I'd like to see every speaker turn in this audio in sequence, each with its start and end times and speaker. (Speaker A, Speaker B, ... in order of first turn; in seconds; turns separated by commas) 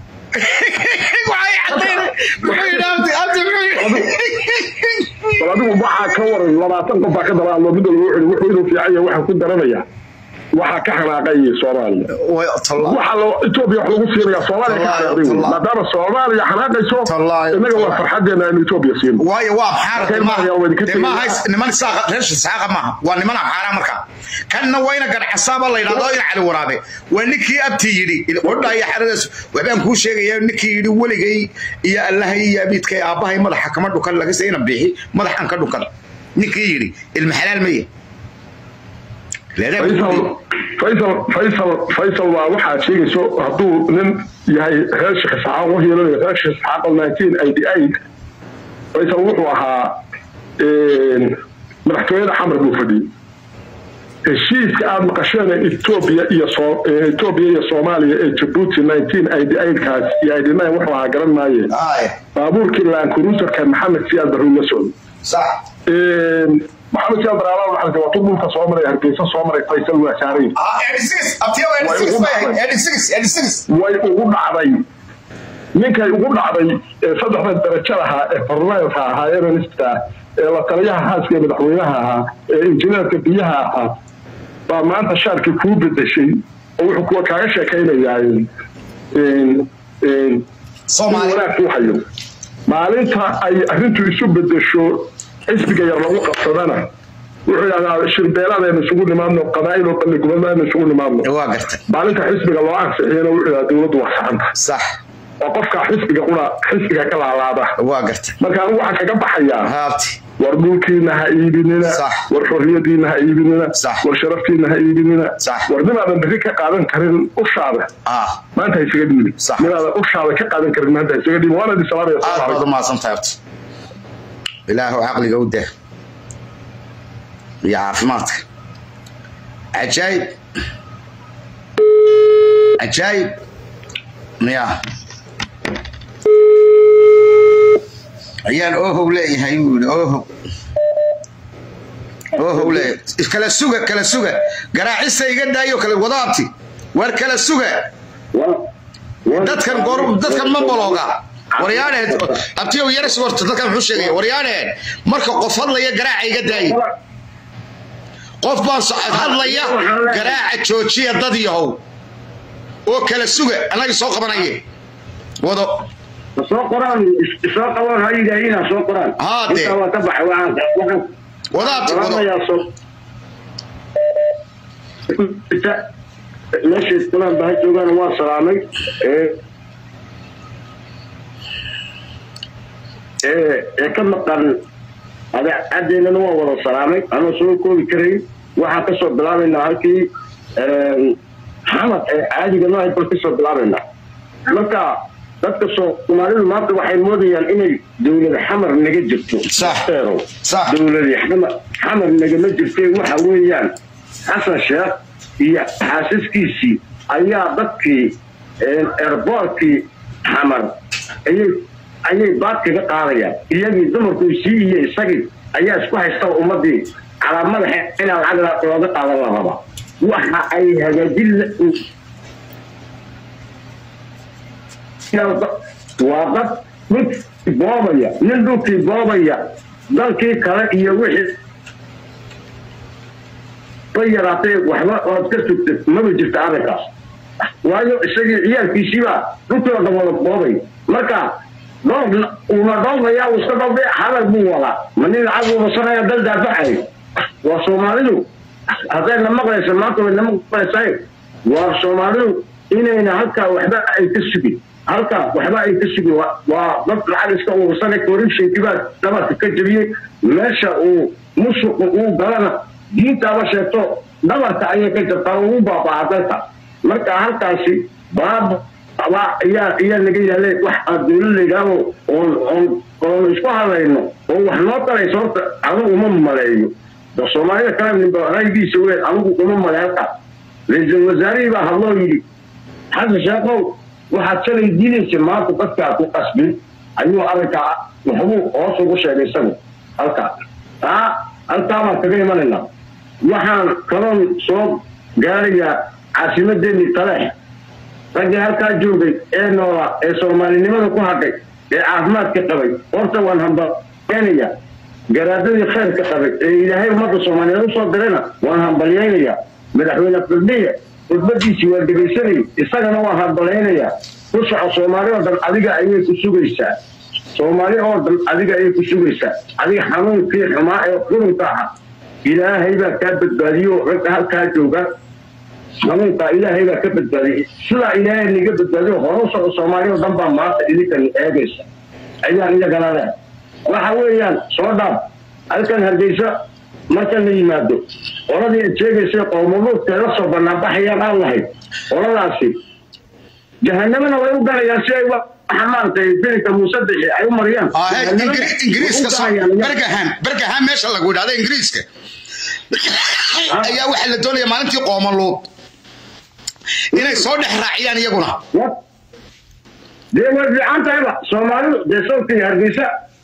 Speaker A: 0.3-5.4, Speaker B: 1.7-3.0, Speaker B: 3.7-4.1, Speaker B: 5.4-9.8, Speaker B: 10.5-12.1, Speaker A: 12.1-13.0, Speaker B: 12.8-19.2, Speaker A: 14.6-15.6, Speaker A: 17.0-18.1, Speaker A: 19.2-37.9, Speaker B: 19.9-21.4, Speaker A: 39.5-40.4, Speaker B: 39.8-47.9, Speaker B: 48.9-50.0, Speaker B: 50.6-53.1, Speaker B: 54.2-61.7, Speaker A: 61.7-62.1, Speaker B: 62.3-64.9, Speaker A: 65.2-65.6, Speaker B: 65.9-70.5, Speaker A: 70.5-73.6, Speaker B: 71.8-72.6, Speaker B: 73.7-74.8, Speaker B: 75.7-83.9, Speaker B: 84.7-88.5, Speaker B: 89.1-90.4, Speaker A: 90.9-91.4, Speaker B: 91.1-92.0, Speaker B: 92.7-96.9, Speaker B: 97.5-101.3, Speaker A: 101.2-101.8, Speaker B: 101.9-104.5, Speaker A: 104.5-105.0, Speaker B: 105.4-107.8, Speaker A: 107.8-108.4, Speaker B: 108.4-109.7, Speaker A: 109.6-110.2, Speaker B: 110.4-117.9, Speaker A: 111.8-112.2, Speaker A: 113.8-114.0, Speaker A: 115.4-115.7, Speaker A: 118.0-118.4, Speaker B: 118.5-122.6, Speaker A: 119.4-119.7, Speaker A: 122.2-123.4, Speaker A: 124.7-125.7, Speaker A: 127.6-128.4, Speaker A: 129.7-130.3, Speaker A: 132.8-133.3, Speaker A: 134.4-134.8, Speaker A: 138.4-140.3, Speaker A: 142.3-147.9, Speaker C: 142.6-142.8, Speaker C: 148.3-148.7, Speaker C: 149.2-152.4, Speaker A: 149.3-156.8, Speaker C: 156.5-156.9, Speaker A: 158.4-161.8, Speaker C: 159.1-160.4, Speaker A: 162.8-164.6, Speaker A: 165.4-165.8, Speaker C: 166.3-172.7, Speaker A: 169.2-169.7, Speaker A: 171.5-172.2, Speaker C: 175.1-175.8, Speaker C: 176.6-179.3, Speaker C: 183.2-184.6, Speaker C: 185.3-193.8, Speaker C: 194.4-203.7, Speaker A: 199.5-199.8, Speaker A: 200.4-200.7, Speaker C: 204.2-210.7, Speaker C: 211.2-221.8, Speaker C: 225.1-231.3, Speaker C: 233.9-236.9, Speaker C: 237.6-241.3, Speaker C: 241.8-246.9, Speaker C: 247.4-248.2, Speaker C: 248.8-280.1, Speaker C: 280.7-282.2, Speaker C: 282.9-290.3, Speaker C: 290.8-292.7, Speaker C: 293.2-297.3, Speaker C: 298.1-304.5, Speaker C: 305.1-316.7, Speaker C: 317.3-321.7, Speaker C: 322.2-324.9, Speaker C: 325.8-331.7, Speaker C: 332.2-333.1, Speaker C: 333.6-336.3, Speaker C: 336.9-342.6, Speaker C: 343.6-349.8, Speaker A: 347.7-351.9, Speaker A: 352.7-355.5, Speaker C: 353.5-353.8, Speaker A: 356.9-358.4, Speaker C: 356.9-357.2, Speaker C: 360.1-362.9